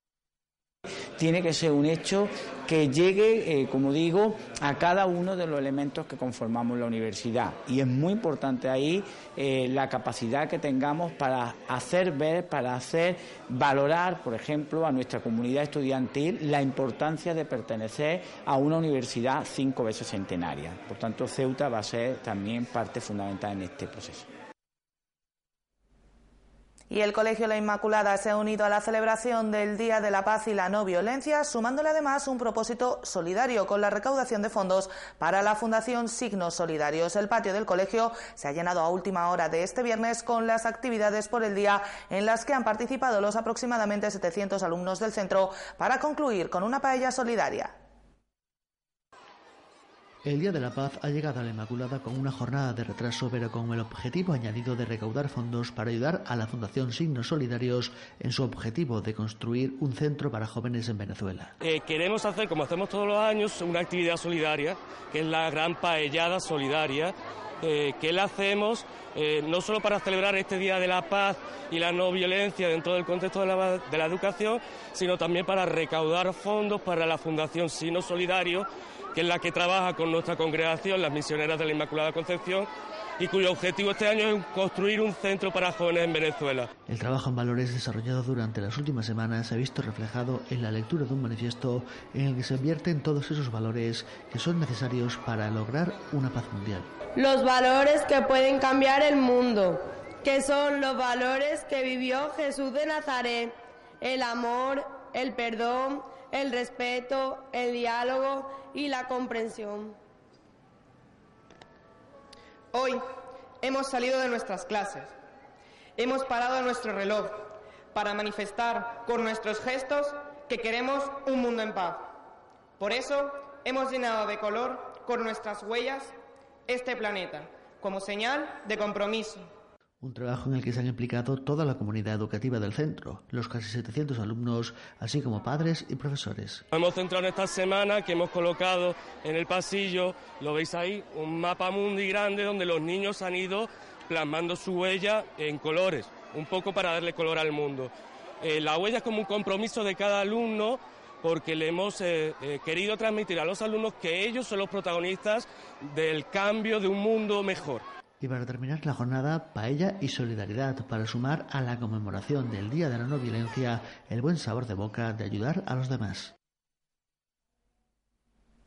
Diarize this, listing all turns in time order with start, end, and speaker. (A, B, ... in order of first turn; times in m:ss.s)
0:01.2-0:24.3 A
0:26.9-0:47.7 B
0:50.2-1:01.5 C
1:01.6-1:26.7 D
1:26.9-1:36.9 C
1:37.2-1:50.0 E
1:52.7-1:53.0 F
1:53.6-1:55.1 F
1:56.0-2:02.1 F
2:02.8-2:06.2 F
2:06.7-2:09.5 F
2:10.0-2:16.6 C
2:16.7-2:37.8 D
2:38.2-2:46.3 C